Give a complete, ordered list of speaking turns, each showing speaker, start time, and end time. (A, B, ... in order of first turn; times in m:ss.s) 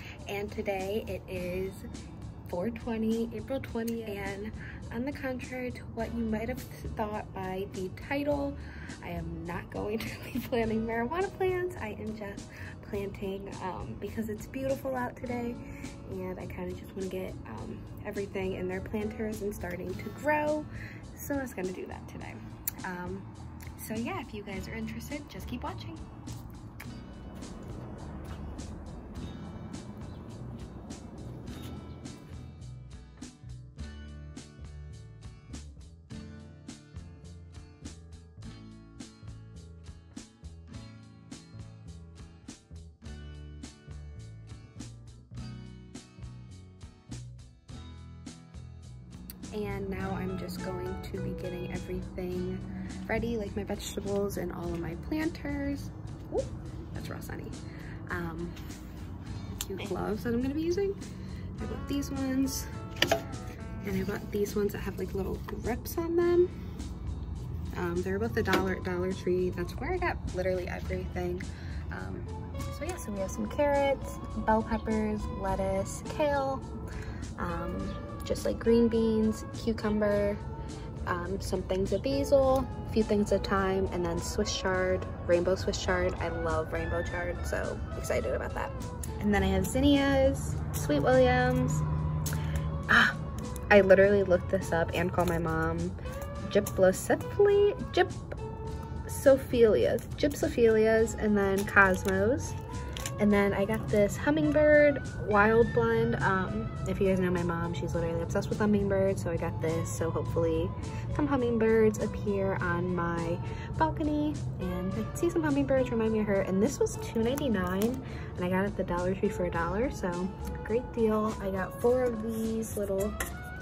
0:00.2-0:01.9 A
0:02.5-0:26.1 A
0:49.5-0:58.6 A
0:59.5-1:01.0 A
1:01.6-1:02.7 A
1:03.8-1:06.5 A
1:07.7-1:16.7 A
1:17.4-1:20.4 A
1:21.1-1:31.8 A
1:32.9-1:38.3 A
1:39.0-1:42.6 A
1:43.2-2:03.2 A